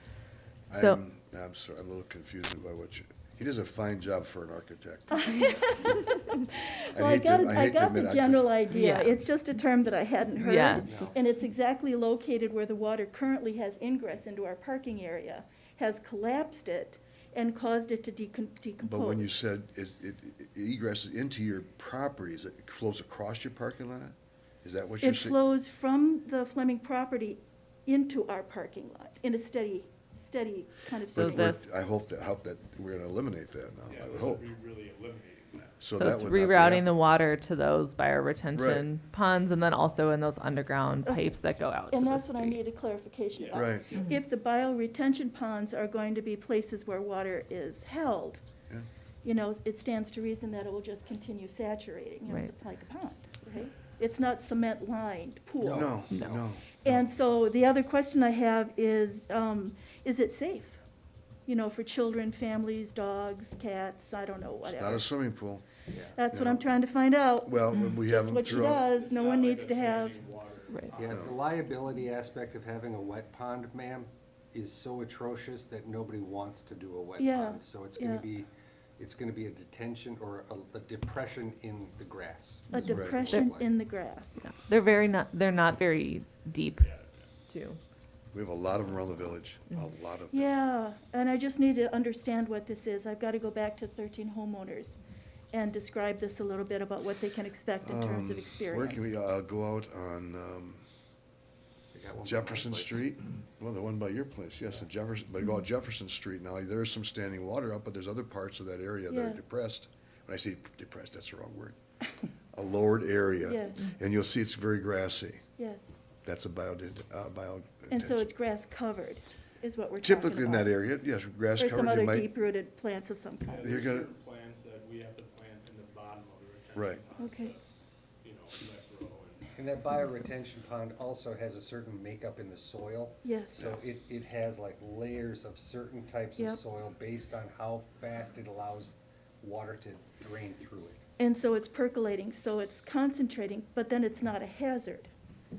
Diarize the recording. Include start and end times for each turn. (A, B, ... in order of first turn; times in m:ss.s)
0:00.7-0:06.0 A
0:00.7-0:01.0 B
0:05.2-0:19.3 C
0:06.9-0:08.5 A
0:08.7-0:09.2 B
0:10.4-0:11.1 B
0:10.8-0:11.2 D
0:18.8-0:25.4 A
0:25.0-0:31.7 C
0:31.1-0:31.6 B
0:31.1-0:34.5 A
0:33.9-0:35.9 E
0:35.8-0:36.9 A
0:36.0-0:42.6 B
0:38.5-0:38.9 A
0:41.0-0:41.3 C
0:41.9-0:48.4 C
0:43.4-0:44.2 E
0:43.5-0:43.9 A
0:49.2-0:56.0 C
0:52.3-0:52.5 B
0:55.6-0:56.4 D
0:55.7-0:57.1 A
0:56.1-0:56.4 B
0:56.8-1:00.8 C
1:01.5-1:05.1 C
1:04.6-1:05.7 A
1:05.9-1:06.2 D
1:06.2-1:10.2 C
1:06.3-1:06.8 A
1:07.4-1:08.8 A
1:08.5-1:11.3 E
1:10.7-1:11.0 B
1:10.9-1:18.5 D
1:17.2-1:18.3 C
1:19.0-1:23.7 D
1:22.7-1:24.4 C
1:22.7-1:23.6 B
1:22.9-1:23.3 A
1:24.4-1:26.9 B
1:26.8-1:27.3 E
1:27.5-1:27.8 B
1:28.3-1:30.5 A
1:30.3-1:35.0 C
1:35.5-1:39.1 C
1:37.8-1:40.8 A
1:41.9-1:43.0 D
1:42.2-1:51.8 A
1:49.1-1:49.4 C
1:52.5-1:55.4 A
1:53.4-1:53.9 C
1:55.6-1:55.9 C
1:56.2-1:58.3 A
1:57.9-2:00.8 C
2:00.0-2:02.3 A
2:01.6-2:03.6 C
2:03.4-2:07.6 E
2:03.6-2:04.1 A
2:06.7-2:07.0 A
2:07.2-2:07.5 C
2:08.2-2:09.5 E
2:09.6-2:21.0 D
2:13.2-2:13.6 C
2:21.2-2:25.1 C